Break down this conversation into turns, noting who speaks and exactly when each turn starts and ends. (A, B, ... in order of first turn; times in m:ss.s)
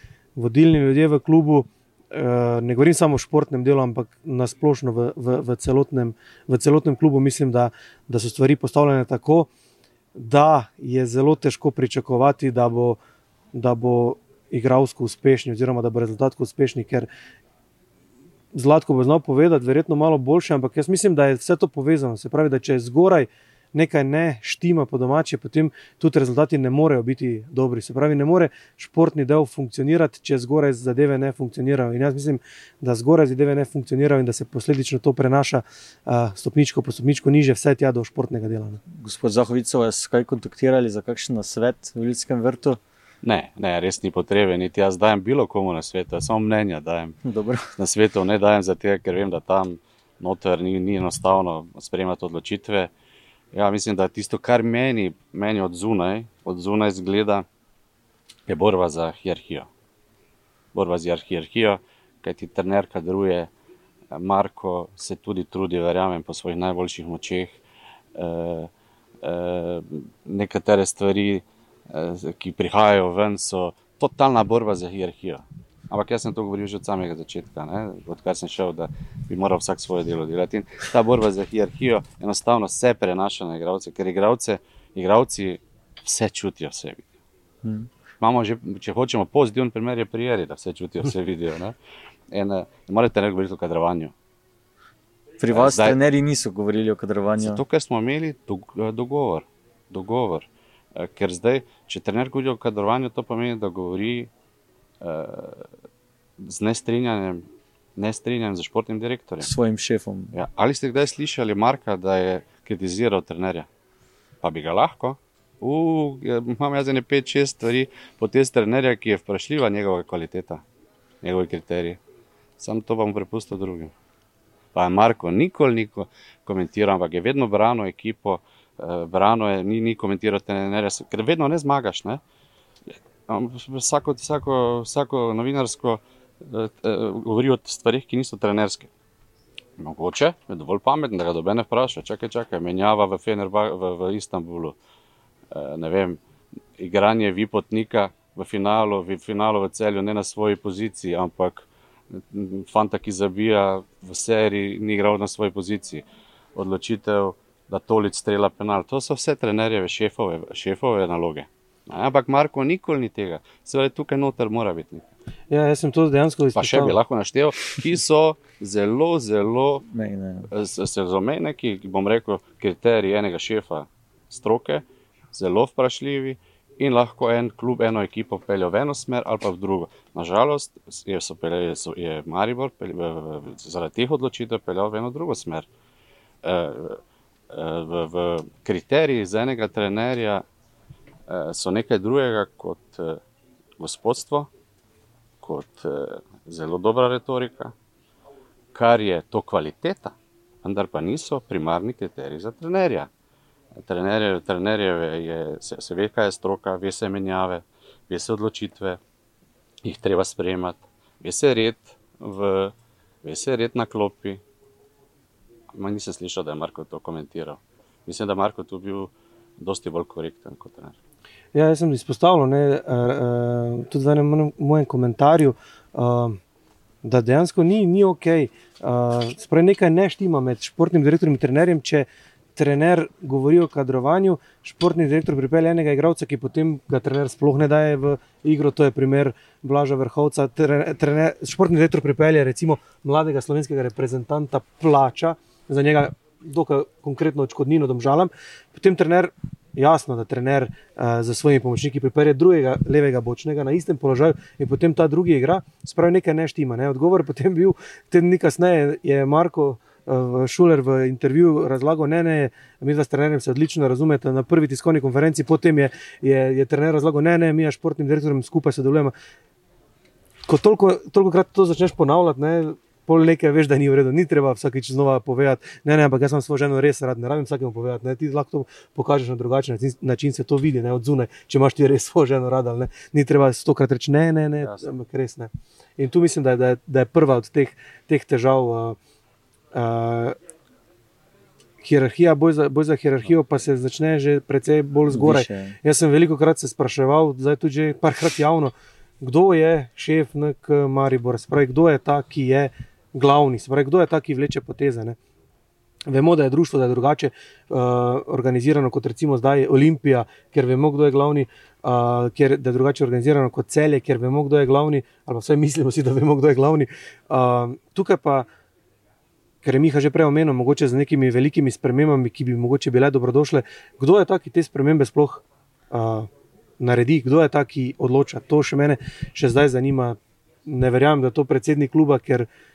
0:00.4-0:09.5 A
0:10.1-0:13.0 A
0:13.5-0:17.1 A
0:18.5-0:38.8 A
0:38.9-0:42.8 B
0:43.2-0:47.2 C
0:47.2-0:47.7 B
0:47.8-0:52.9 C
0:53.5-0:57.4 C
0:58.5-0:59.7 C
1:00.7-1:03.5 C
1:04.1-1:07.6 C
1:08.1-1:27.1 C
1:27.6-1:27.9 B
1:28.2-1:31.8 C
1:32.3-1:34.1 C
1:35.4-1:37.6 B
1:35.5-1:36.0 C
1:37.4-1:44.3 C
1:45.0-1:45.7 C
1:46.4-1:49.5 C
1:49.4-1:50.3 B
1:50.3-1:53.7 C
1:54.4-2:00.6 C
2:01.2-2:02.0 C
2:02.6-2:03.9 C
2:04.7-2:12.2 C
2:13.3-2:18.9 C
2:19.8-2:24.8 C
2:25.5-2:26.2 C
2:26.8-2:45.1 C
2:45.5-2:47.0 A
2:46.5-2:49.8 C
2:49.9-2:50.5 B
2:50.5-3:05.7 C
3:06.4-3:10.4 C
3:11.3-3:13.2 C
3:13.8-3:14.5 C
3:15.4-3:17.7 C
3:18.7-3:23.1 C
3:23.7-3:29.0 C
3:29.8-3:34.4 C
3:35.7-3:41.0 C
3:41.5-3:46.4 A
3:47.0-4:29.1 A
4:30.4-4:49.0 A
4:49.7-4:50.4 A
4:51.8-5:05.2 A
4:55.1-4:55.8 B
5:06.1-5:18.5 A
5:19.6-5:26.3 A
5:26.8-5:32.5 A